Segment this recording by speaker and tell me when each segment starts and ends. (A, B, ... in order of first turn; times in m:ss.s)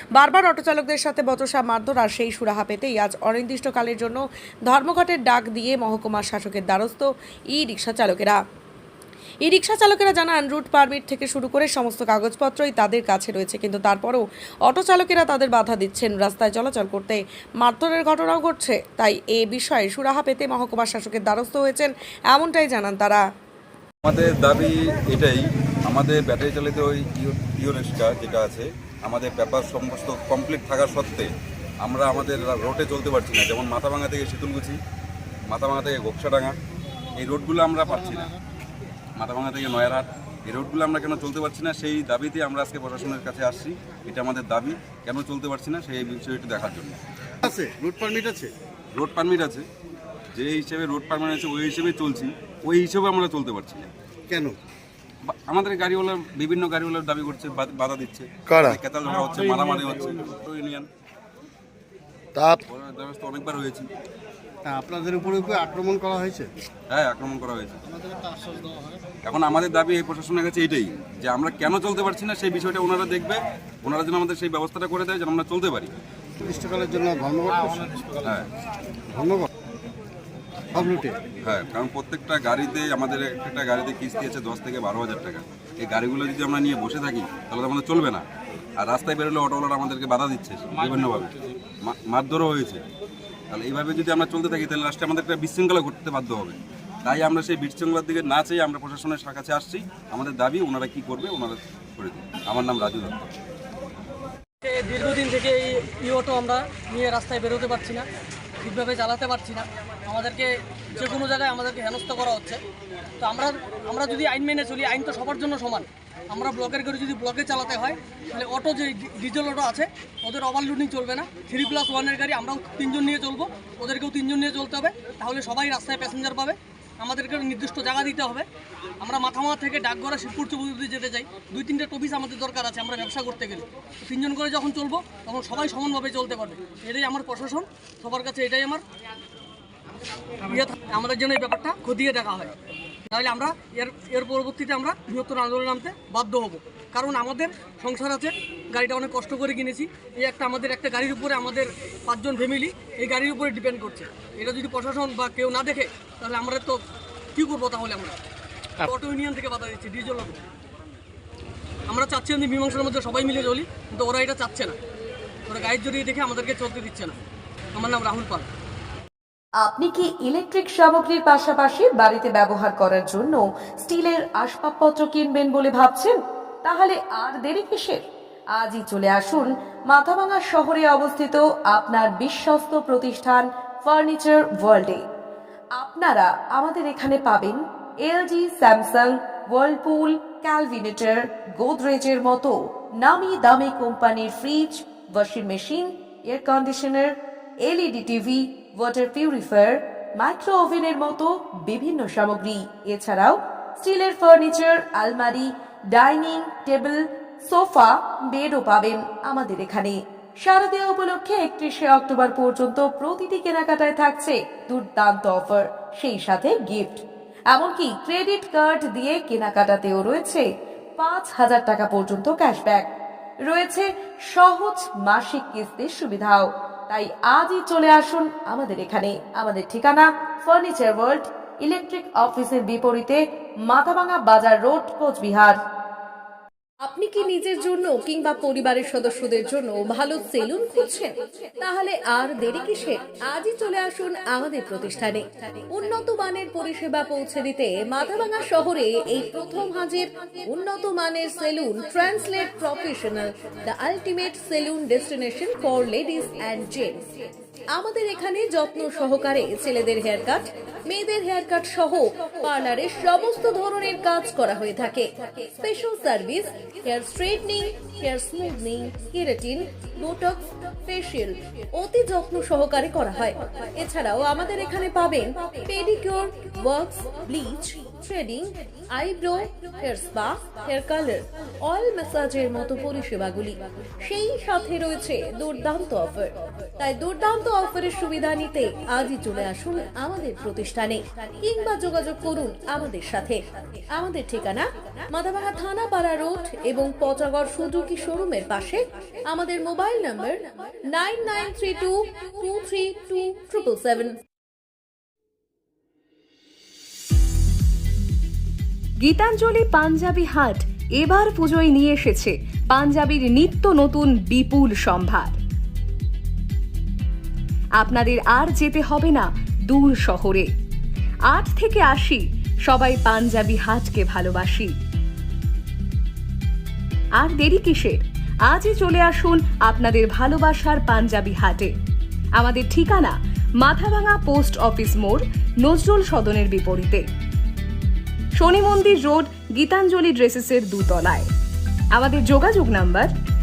0:00.2-0:08.4 A
0:09.4-0:23.2 A
0:24.0-0:31.3 B
0:31.8-0:34.8 B
0:35.5-0:36.5 B
0:37.2-0:38.3 B
0:39.2-0:47.0 B
0:47.4-0:48.5 C
0:49.0-0:49.6 B
0:50.4-0:53.9 B
0:54.3-0:54.6 C
0:55.2-1:00.9 B
1:02.4-1:03.9 B
1:04.6-1:06.5 C
1:06.9-1:07.8 B
1:08.1-1:08.8 C
1:09.2-1:15.9 B
1:16.4-1:18.2 C
1:18.2-1:18.5 B
1:19.1-1:19.5 C
1:20.8-1:21.2 C
1:21.4-1:28.2 B
1:28.8-1:32.8 B
1:33.5-1:43.2 B
1:44.6-1:48.0 D
1:48.6-1:52.6 D
1:53.2-2:08.4 D
2:09.0-2:18.8 D
2:20.5-2:22.5 D
2:23.1-2:36.8 D
2:37.3-2:38.2 D
2:38.8-2:40.4 D
2:41.9-2:44.8 D
2:45.5-2:47.2 D
2:47.8-2:48.4 D
2:49.6-3:05.0 A
3:05.8-3:40.4 A
3:41.0-3:42.9 A
3:43.5-3:55.6 A
3:56.8-4:17.0 E
4:17.7-5:04.2 E
5:09.0-5:15.4 F
5:17.8-5:20.5 F
5:21.3-5:24.8 F
5:27.2-5:31.7 F
5:32.4-5:37.1 F
5:38.4-5:41.3 F
5:41.9-5:43.1 F